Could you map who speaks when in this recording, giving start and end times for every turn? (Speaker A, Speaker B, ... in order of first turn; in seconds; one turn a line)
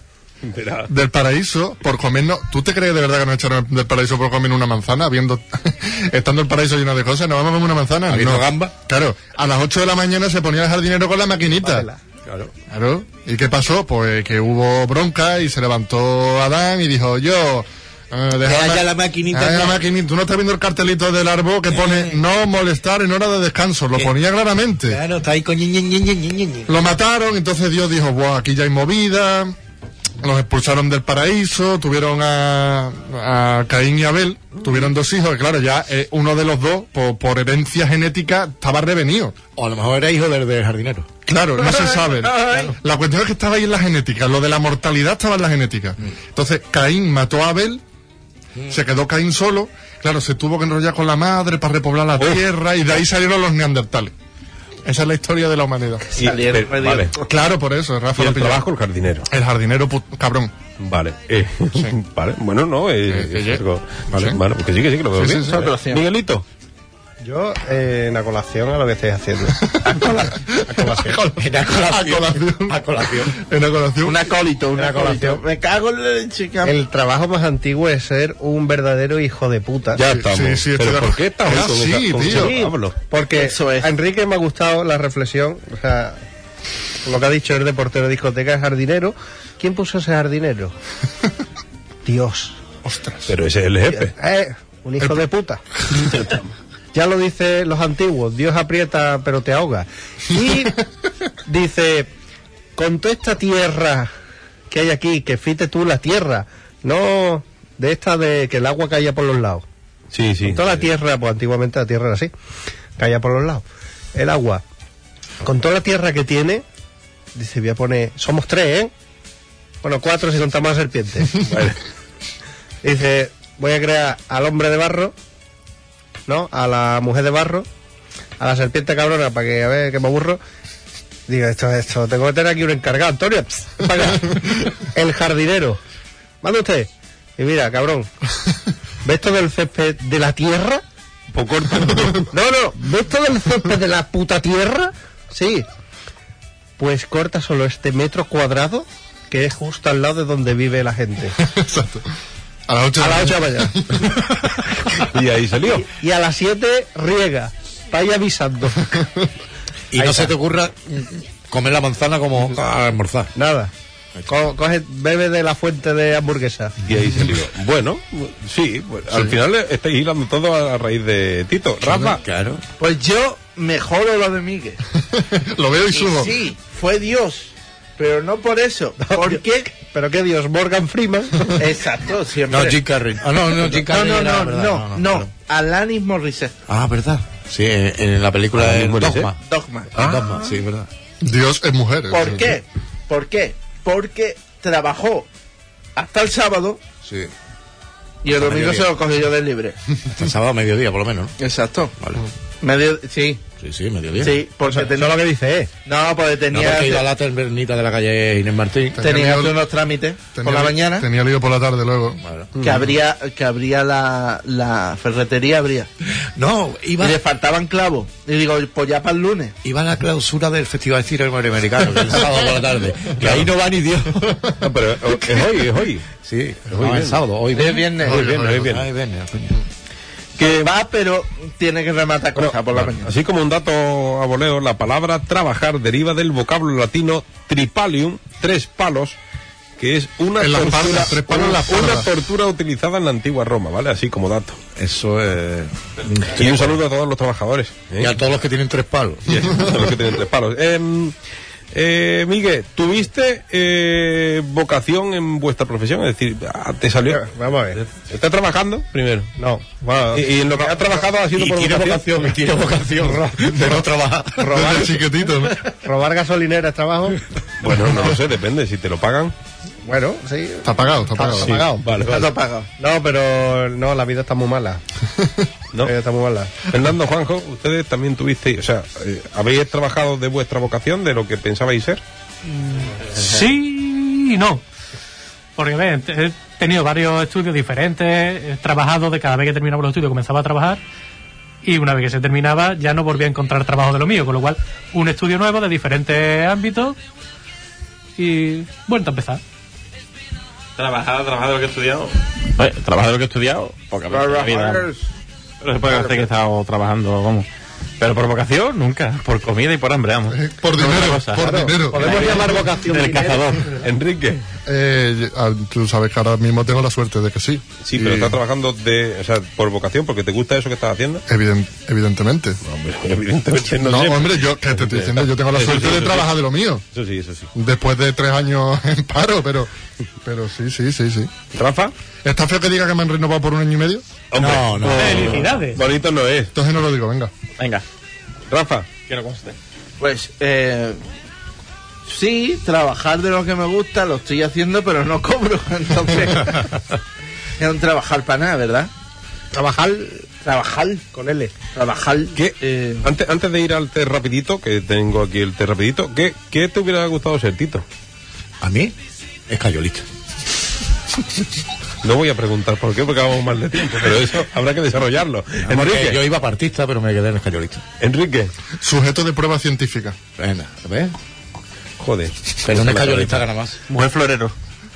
Speaker A: 0.5-0.9
Speaker B: 0.9-11.9
Speaker C: 8.1-8.7
Speaker D: 11.7-12.0
Speaker C: 12.3-12.5
Speaker B: 12.7-25.0
Speaker C: 18.4-19.8
Speaker C: 21.7-22.2
Speaker C: 24.9-26.7
Speaker B: 26.7-29.6
Speaker B: 30.2-39.4
Speaker C: 39.6-41.1
Speaker B: 41.3-47.8
Speaker E: 41.6-42.7
Speaker B: 48.7-54.1
Speaker B: 54.9-56.2
Speaker E: 56.2-57.2
Speaker A: 56.2-57.1
Speaker B: 57.2-58.6
Speaker A: 58.2-59.3
Speaker B: 59.3-60.5
Speaker A: 60.8-66.4
Speaker B: 63.1-64.4
Speaker B: 65.1-65.7
Speaker E: 65.5-66.0
Speaker D: 67.2-69.9
Speaker E: 69.8-70.5
Speaker D: 70.6-71.2
Speaker B: 70.7-74.3
Speaker C: 71.4-73.4
Speaker E: 74.0-76.8
Speaker D: 74.8-75.4
Speaker D: 76.6-80.0
Speaker A: 80.0-83.0
Speaker B: 80.1-82.6
Speaker D: 82.3-86.2
Speaker E: 83.3-83.9
Speaker D: 87.1-90.8
Speaker D: 92.0-92.6
Speaker B: 92.8-93.3
Speaker A: 93.3-94.1
Speaker D: 94.2-95.6
Speaker A: 96.0-96.4
Speaker D: 96.9-100.8
Speaker D: 101.5-102.1
Speaker D: 102.8-104.1
Speaker D: 104.7-109.7
Speaker A: 110.1-110.9
Speaker D: 110.4-112.3
Speaker D: 113.0-114.6
Speaker D: 115.4-116.6
Speaker D: 117.3-118.9
Speaker D: 119.8-121.3
Speaker A: 121.4-121.8
Speaker D: 122.8-125.1
Speaker D: 126.3-127.7
Speaker D: 128.4-130.4
Speaker D: 131.3-135.8
Speaker D: 136.4-138.1
Speaker D: 139.0-140.8
Speaker A: 141.3-142.3
Speaker D: 142.3-145.7
Speaker D: 146.8-151.4
Speaker B: 151.4-152.1
Speaker B: 152.7-154.6
Speaker D: 153.0-153.8
Speaker A: 155.1-155.8
Speaker D: 155.7-159.1
Speaker C: 159.9-163.3
Speaker D: 159.9-160.3
Speaker D: 163.3-163.7
Speaker D: 164.3-166.7
Speaker A: 166.9-172.2
Speaker C: 171.8-172.6
Speaker E: 172.8-174.8
Speaker B: 175.0-176.4
Speaker E: 175.9-179.7
Speaker D: 179.0-181.6
Speaker E: 181.6-182.8
Speaker C: 182.5-185.3
Speaker E: 183.5-186.6
Speaker C: 186.7-189.4
Speaker A: 188.6-189.3
Speaker E: 189.4-189.9
Speaker A: 189.9-190.5
Speaker C: 190.0-190.9
Speaker B: 191.2-192.5
Speaker E: 192.1-195.3
Speaker E: 196.0-196.8
Speaker C: 197.0-197.3
Speaker E: 198.2-199.8
Speaker C: 198.4-198.9
Speaker C: 200.2-201.3
Speaker E: 201.4-201.9
Speaker C: 202.0-202.3
Speaker E: 202.6-203.4
Speaker C: 203.6-204.4
Speaker E: 204.2-205.2
Speaker D: 204.7-205.7
Speaker E: 205.8-207.1
Speaker C: 206.5-209.1
Speaker B: 208.9-209.6
Speaker E: 209.0-211.1
Speaker B: 210.3-212.2
Speaker C: 212.2-212.5
Speaker E: 212.6-215.9
Speaker C: 216.4-217.2
Speaker E: 217.0-219.6
Speaker C: 219.6-224.5
Speaker A: 224.6-226.1
Speaker C: 226.2-229.6
Speaker A: 226.7-227.2
Speaker E: 227.5-228.3
Speaker B: 228.1-228.4
Speaker A: 228.1-228.9
Speaker E: 230.4-233.1
Speaker A: 232.4-239.2
Speaker A: 239.8-244.6
Speaker B: 240.4-242.1
Speaker C: 244.8-246.8
Speaker A: 246.4-248.2
Speaker C: 248.0-249.5
Speaker A: 249.3-251.2
Speaker A: 251.7-259.3
Speaker D: 257.1-257.8
Speaker D: 259.4-260.8
Speaker A: 260.1-262.2
Speaker C: 261.3-264.8
Speaker B: 264.5-265.6
Speaker D: 264.6-264.8
Speaker D: 265.8-267.2
Speaker A: 267.6-269.3
Speaker D: 269.9-271.9
Speaker B: 270.6-271.6
Speaker A: 271.4-272.3
Speaker E: 272.0-272.7
Speaker D: 272.8-274.8
Speaker B: 275.2-275.5
Speaker D: 275.8-276.5
Speaker A: 276.7-282.0
Speaker F: 282.5-284.6
Speaker F: 285.6-290.8
Speaker F: 291.6-297.0
Speaker F: 298.2-299.4
Speaker G: 300.8-304.9
Speaker G: 305.6-307.5
Speaker G: 308.0-313.8
Speaker B: 310.3-312.5
Speaker D: 311.4-313.6
Speaker A: 313.8-314.4
Speaker B: 314.7-318.4
Speaker A: 317.8-321.2
Speaker B: 321.3-322.6
Speaker A: 322.6-326.3
Speaker B: 323.8-326.8
Speaker A: 326.9-327.5
Speaker B: 327.5-329.7
Speaker B: 330.2-331.3
Speaker A: 331.5-331.9
Speaker B: 332.2-334.1
Speaker A: 334.3-336.5
Speaker C: 334.4-335.6
Speaker G: 334.9-335.2
Speaker F: 335.0-335.8
Speaker B: 336.5-337.3
Speaker G: 337.6-337.8
Speaker A: 338.5-338.9
Speaker G: 339.1-339.6
Speaker E: 340.0-341.0
Speaker E: 342.1-346.8
Speaker E: 347.6-348.9
Speaker D: 349.5-350.3
Speaker E: 350.4-351.1
Speaker D: 351.1-351.5
Speaker E: 351.8-353.1
Speaker A: 352.4-357.8
Speaker C: 358.6-358.9
Speaker C: 359.5-360.1
Speaker A: 362.0-366.2
Speaker C: 365.6-367.8
Speaker A: 368.0-368.5
Speaker B: 368.8-370.2
Speaker C: 370.4-371.1
Speaker A: 372.0-373.4
Speaker C: 372.6-373.8
Speaker G: 373.9-374.5